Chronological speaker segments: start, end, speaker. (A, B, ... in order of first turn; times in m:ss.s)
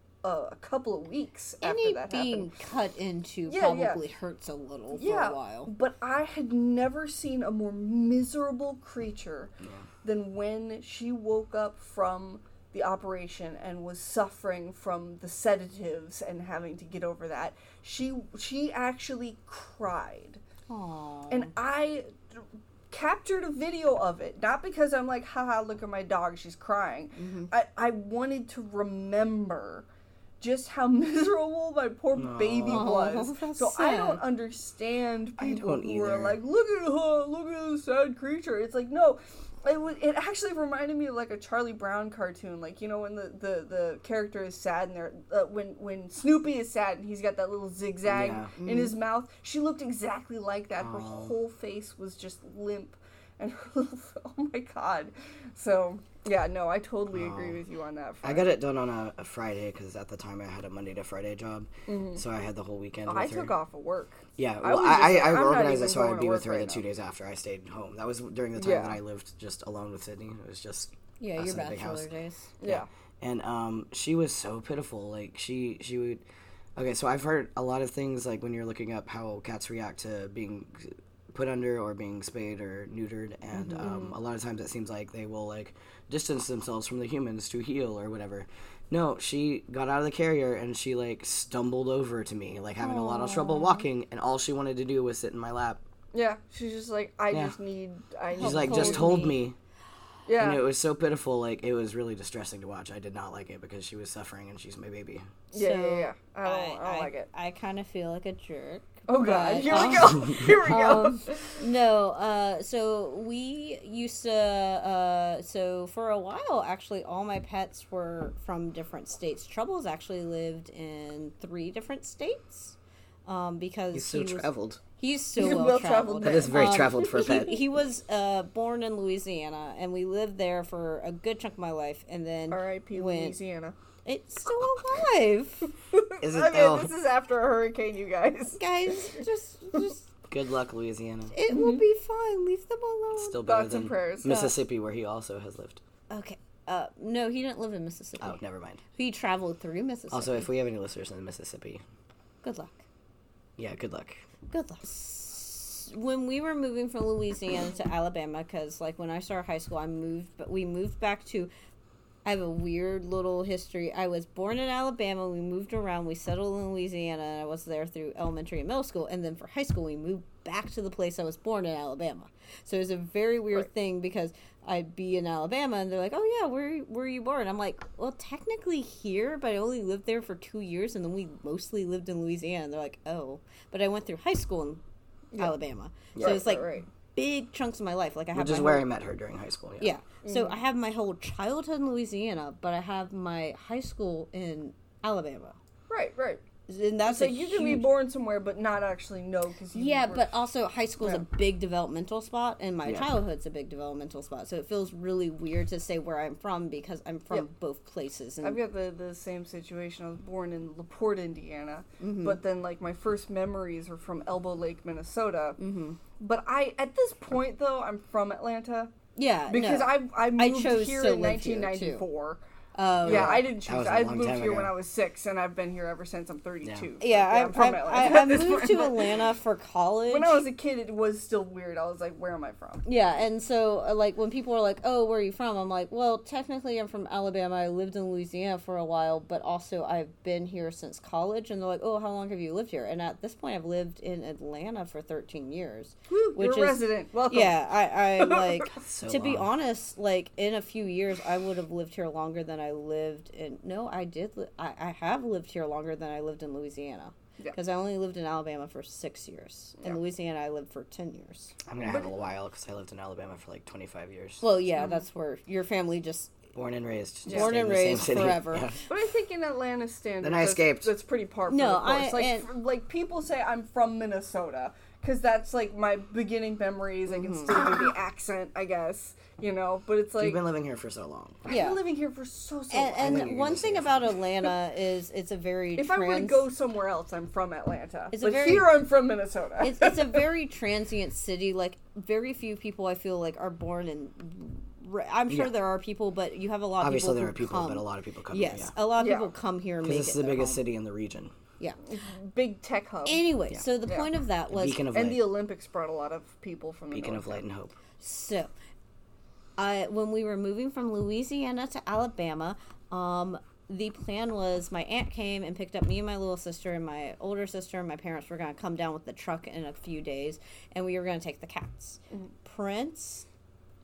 0:00.2-0:02.5 A
0:01.6-0:05.7 B
0:03.5-0:04.0 A
0:04.9-0:09.5 A
0:09.6-0:09.9 C
0:10.0-0:20.4 A
0:20.7-0:21.5 B
0:21.3-0:29.9 A
0:27.2-0:27.5 B
0:30.4-0:58.5 A
0:32.2-0:33.0 C
0:32.7-0:34.2 B
0:35.4-0:36.4 C
0:48.0-0:48.5 C
0:48.6-0:48.9 B
0:50.8-0:51.4 C
0:57.1-0:57.6 C
0:58.2-1:03.5 C
1:01.9-1:02.2 A
1:03.1-1:06.8 A
1:04.4-1:12.1 C
1:08.6-1:09.0 A
1:11.2-1:12.5 B
1:12.6-1:12.9 A
1:12.6-1:16.2 C
1:16.8-1:35.8 C
1:23.6-1:23.9 B
1:23.8-1:24.1 A
1:32.8-1:33.9 B
1:36.1-1:39.2 A
1:37.3-1:37.6 C
1:38.4-1:39.4 B
1:38.4-1:39.6 C
1:40.3-1:40.6 A
1:40.4-1:45.3 C
1:45.5-1:47.3 A
1:45.5-2:13.4 B
1:49.1-1:51.6 A
2:03.9-2:04.8 C
2:05.4-2:07.5 A
2:06.2-2:07.6 C
2:12.5-2:13.8 A
2:14.0-2:15.7 B
2:15.9-2:19.2 A
2:16.2-2:16.9 C
2:18.6-2:20.1 B
2:20.3-2:21.4 C
2:21.3-2:23.4 B
2:21.5-2:21.8 A
2:23.2-2:25.8 C
2:23.4-2:24.5 A
2:26.1-2:28.4 B
2:28.2-2:28.8 C
2:28.9-2:30.5 B
2:30.1-2:31.8 C
2:32.4-2:32.8 B
2:33.6-2:34.2 C
2:34.5-2:41.5 B
2:42.2-3:04.8 B
3:05.4-3:08.9 B
3:06.1-3:06.5 C
3:06.2-3:06.9 A
3:08.3-3:09.9 C
3:09.8-3:15.6 B
3:10.2-3:10.6 A
3:15.9-3:16.4 A
3:16.7-3:17.9 B
3:17.0-3:20.3 A
3:19.7-3:28.6 B
3:22.8-3:23.1 C
3:28.4-3:35.6 A
3:32.0-3:32.4 B
3:35.6-3:36.0 B
3:36.2-3:38.9 A
3:39.2-3:42.1 B
3:39.5-3:42.4 A
3:42.8-3:43.5 B
3:43.0-3:49.3 A
3:43.0-3:44.7 C
3:46.6-3:46.9 C
3:47.0-3:50.5 B
3:50.1-3:52.8 A
3:52.8-4:21.6 B
4:06.1-4:07.6 A
4:08.2-4:08.7 A
4:08.8-4:09.5 C
4:21.7-4:24.4 C
4:21.8-4:22.1 A
4:24.4-4:26.4 B
4:26.5-4:28.8 C
4:27.3-4:27.5 A
4:27.3-4:28.8 B
4:28.9-4:40.4 A
4:30.2-4:30.9 C
4:31.5-4:32.5 B
4:37.1-4:37.6 B
4:40.2-4:41.4 C
4:41.5-4:43.5 A
4:41.5-4:41.8 B
4:42.7-4:46.5 B
4:43.0-4:44.1 C
4:45.8-4:50.2 A
4:48.1-4:48.8 B
4:49.6-5:00.6 B
4:55.3-4:55.5 C
4:56.8-4:58.8 C
4:59.0-4:59.3 A
4:59.8-5:01.3 C
5:01.8-5:03.3 A
5:03.1-5:04.9 B
5:04.5-5:05.2 C
5:04.9-5:07.4 A
5:06.9-5:07.8 C
5:08.0-5:08.5 B
5:09.6-5:23.3 B